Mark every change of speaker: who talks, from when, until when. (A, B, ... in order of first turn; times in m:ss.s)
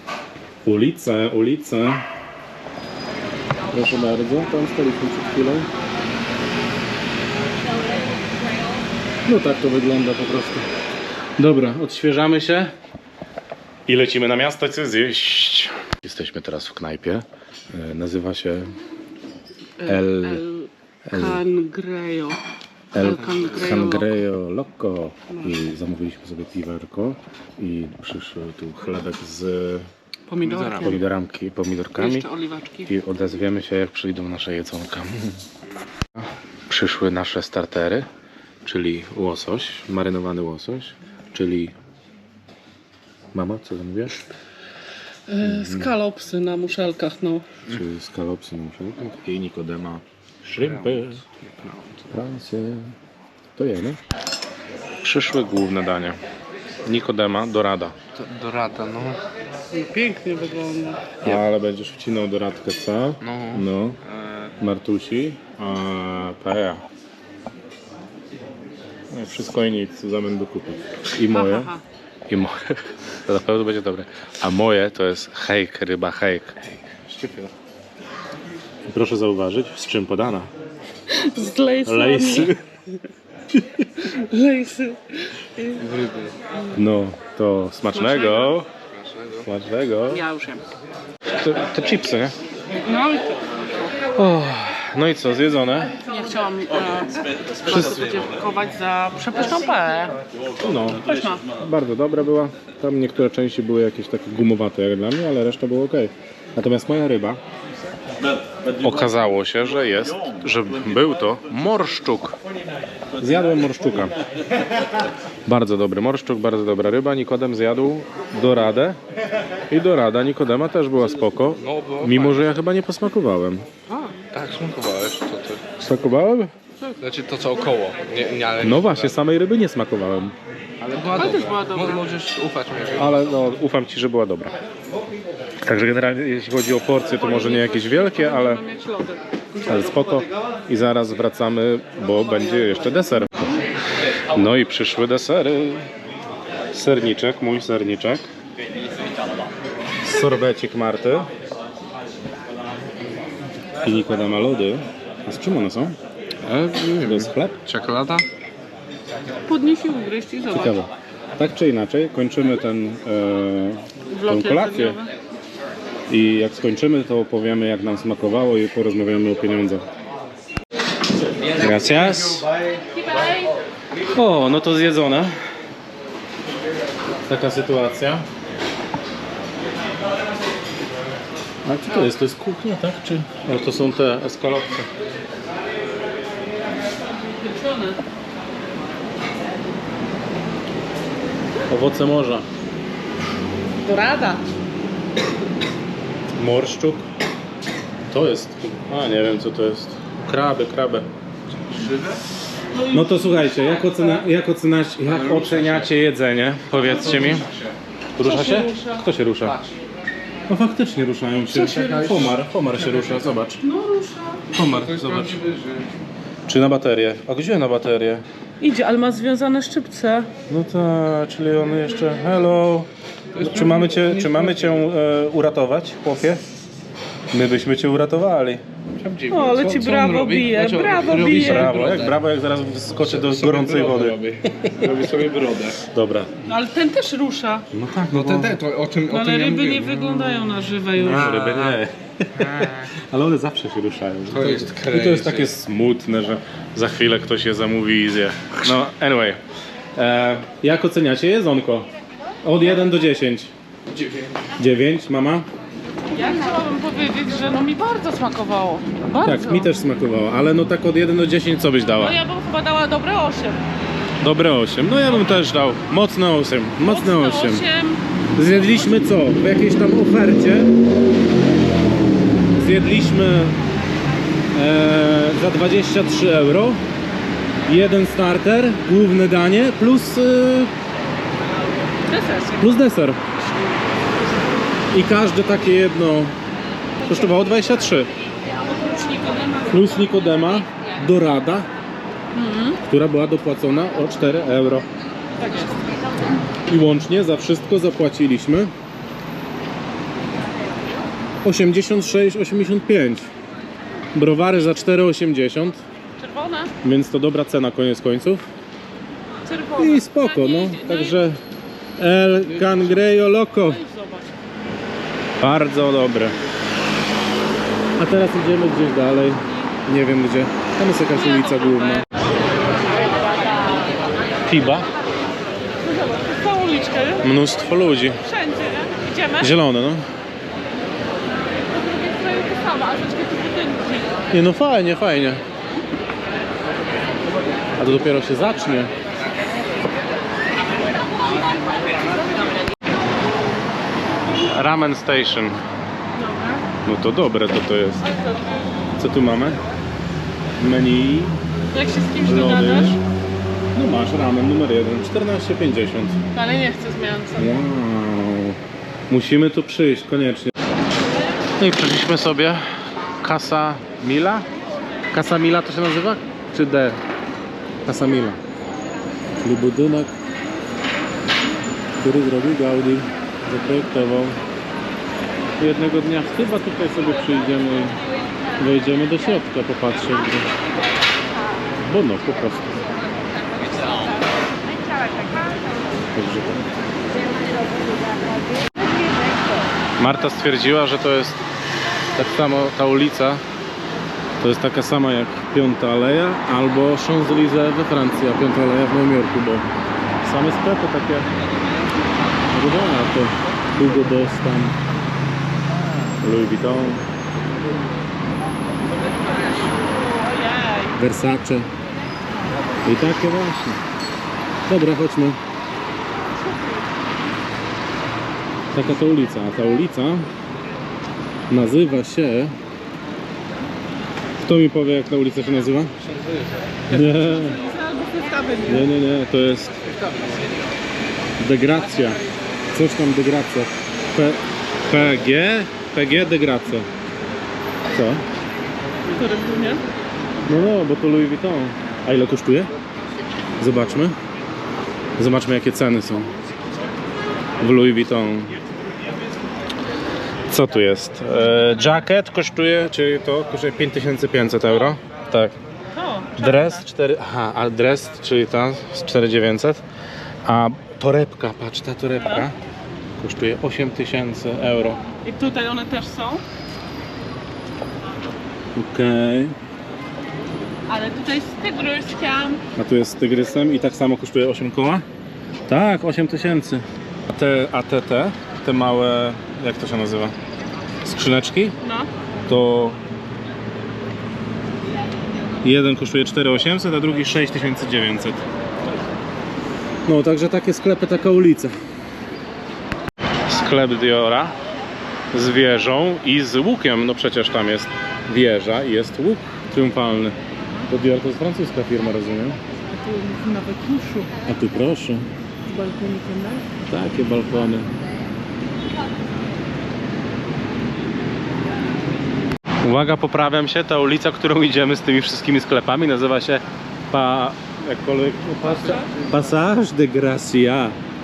0:00.6-0:02.0 A
0:03.7-0:05.7 A
0:09.3-0:10.7 A
0:11.4-0:12.7 A
0:13.9-0:18.8 A
0:19.8-0:22.4 B
0:19.8-0:20.4 A
0:21.1-0:21.4 A
0:22.9-0:29.9 A
0:23.0-0:24.2 B
0:30.3-0:31.0 B
0:30.4-0:31.0 C
0:30.8-0:32.3 A
0:32.0-0:32.9 B
0:32.9-0:35.4 A
0:36.7-0:38.1 A
0:38.6-0:41.8 A
0:43.3-0:44.3 A
0:45.3-0:47.5 B
0:45.4-0:45.9 A
0:47.7-0:51.2 A
0:50.6-0:52.0 C
0:52.1-0:52.9 A
0:53.6-0:54.0 A
0:55.0-0:56.2 A
0:56.9-0:58.0 A
0:58.1-0:59.2 C
0:59.7-1:01.1 B
1:01.2-1:04.0 A
1:03.2-1:04.5 C
1:04.6-1:06.8 A
1:09.1-1:11.8 A
1:11.3-1:11.8 B
1:12.3-1:16.6 A
1:17.0-1:17.5 C
1:18.9-1:20.5 A
1:21.1-1:22.6 B
1:21.8-1:22.6 A
1:24.0-1:25.8 B
1:25.8-1:26.4 C
1:26.7-1:28.7 A
1:27.9-1:28.6 B
1:28.9-1:29.5 C
1:29.4-1:30.2 A
1:30.1-1:30.6 B
1:31.3-1:32.4 A
1:32.8-1:33.7 B
1:34.1-1:35.9 A
1:36.0-1:40.2 B
1:40.6-1:41.0 A
1:41.0-1:41.4 B
1:41.6-1:47.4 A
1:48.7-1:52.4 A
1:53.2-1:54.1 A
1:55.5-1:59.0 A
1:59.7-2:03.7 A
2:01.6-2:02.5 C
2:04.1-2:05.6 C
2:05.8-2:06.5 A
2:06.8-2:09.2 C
2:08.6-2:10.4 A
2:10.8-2:13.2 C
2:11.2-2:12.0 B
2:13.0-2:14.5 A
2:15.6-2:18.6 A
2:17.1-2:19.6 B
2:19.6-2:23.6 A
2:24.3-2:25.9 A
2:26.7-2:28.3 A
2:30.0-2:31.3 A
2:33.8-2:36.0 A
2:36.4-2:38.3 C
2:37.0-2:37.6 A
2:39.5-2:40.8 B
2:40.5-2:45.0 A
2:44.1-2:45.1 B
2:46.1-2:49.8 A
2:51.6-2:52.4 A
2:54.1-2:55.3 A
2:57.3-2:58.3 A
3:01.6-3:04.9 A
3:07.3-3:08.0 B
3:11.7-3:12.5 A
3:13.8-3:14.4 B
3:16.4-3:17.1 A
3:18.1-3:21.1 A
3:21.7-3:22.2 C
3:22.7-3:24.0 B
3:22.9-3:27.5 A
3:25.1-3:25.9 C
3:26.8-3:27.8 C
3:28.2-3:29.6 A
3:28.2-3:29.0 B
3:30.5-3:33.6 A
3:31.5-3:32.2 B
3:31.8-3:32.3 C
3:33.6-3:34.4 B
3:34.5-3:35.4 A
3:34.6-3:35.9 C
3:36.5-3:38.2 A
3:38.6-3:40.3 B
3:40.5-3:46.4 A
3:43.4-3:44.6 C
3:47.3-3:48.6 A
3:49.0-3:52.2 C
3:49.3-3:51.8 B
3:51.3-3:54.7 A
3:53.0-3:55.8 C
3:55.8-3:56.4 A
3:56.4-3:57.7 B
3:57.7-3:58.6 A
3:58.1-4:00.0 C
3:59.1-4:01.4 B
4:01.0-4:09.4 A
4:01.0-4:01.8 C
4:04.3-4:05.5 C
4:10.0-4:11.9 A
4:12.4-4:13.5 A
4:14.6-4:15.5 A
4:16.1-4:19.7 B
4:19.2-4:22.2 A
4:22.0-4:23.6 B
4:24.2-4:27.6 A
4:26.8-4:28.9 B
4:28.4-4:30.7 A
4:32.6-4:33.6 A
4:34.5-4:36.8 A
4:37.6-4:40.7 A
4:42.1-4:42.8 B
4:42.6-4:43.2 A
4:44.9-4:46.3 A
4:47.0-4:48.1 A
4:48.8-4:50.3 B
4:49.7-4:51.7 A
4:52.3-4:52.8 B
4:52.8-4:54.9 A
4:55.4-4:55.7 B
4:56.7-4:58.7 A
5:01.4-5:03.3 A
5:04.1-5:05.8 A
5:06.2-5:06.7 B
5:06.8-5:08.4 A
5:09.4-5:11.2 B
5:09.8-5:11.4 A
5:12.0-5:13.8 A
5:13.4-5:14.3 B
5:15.4-5:16.4 A
5:18.0-5:22.0 A
5:21.1-5:22.1 B
5:24.4-5:24.9 A
5:25.9-5:27.2 B
5:27.2-5:28.2 A
5:28.2-5:29.5 B
5:29.4-5:30.1 A
5:31.8-5:34.2 B
5:34.3-5:35.4 A
5:37.8-5:38.9 A
5:44.4-5:45.6 A
5:46.2-5:46.6 B
5:46.8-5:48.1 A
5:49.0-5:49.6 A
5:50.6-5:51.4 A
5:51.7-5:53.0 B
5:52.2-5:53.0 A
5:53.7-5:56.2 A
5:56.3-5:57.6 B
5:57.4-6:00.5 A
6:01.6-6:02.6 A
6:03.2-6:04.5 A
6:05.1-6:07.0 A
6:07.9-6:08.4 A
6:09.4-6:10.1 A
6:12.0-6:14.4 A
6:15.6-6:18.0 A
6:18.6-6:20.5 A
6:21.8-6:22.8 A
6:26.1-6:26.7 A
6:30.0-6:31.4 A
6:32.1-6:33.4 A
6:34.4-6:39.7 A
6:40.2-6:41.3 A
6:42.5-6:44.8 A
6:46.2-6:47.0 A
6:50.1-6:51.0 B
6:51.0-6:51.7 A
6:52.8-6:53.8 A
6:54.7-6:55.4 A
6:56.5-6:56.8 B
6:58.7-7:00.3 A
7:01.5-7:02.5 A
7:04.4-7:05.9 A
7:06.1-7:06.5 C
7:06.9-7:07.6 A
7:07.0-7:08.9 B
7:08.7-7:09.7 A
7:09.8-7:10.7 C
7:11.4-7:12.2 A
7:12.7-7:16.9 A
7:17.9-7:18.2 A
7:19.1-7:19.8 B
7:20.5-7:22.7 A
7:23.6-7:24.2 A
7:25.2-7:26.3 A
7:27.6-7:28.6 A
7:30.5-7:35.5 A
7:36.0-7:36.8 B
7:36.4-7:39.8 A
7:40.4-7:42.6 A
7:42.2-7:42.5 B
7:43.2-7:45.0 A
7:45.2-7:46.4 B
7:48.8-7:49.6 A
7:50.9-7:52.6 B
7:52.8-7:55.0 A
7:55.7-8:00.3 A
8:01.0-8:01.8 A
8:01.8-8:02.1 B
8:02.5-8:03.0 A
8:05.6-8:08.4 A
8:10.1-8:11.7 A
8:13.5-8:14.5 A
8:15.3-8:20.4 A
8:20.9-8:22.6 A
8:22.9-8:24.3 B
8:24.4-8:25.3 A
8:25.7-8:26.7 B
8:26.8-8:27.9 A
8:32.8-8:41.0 A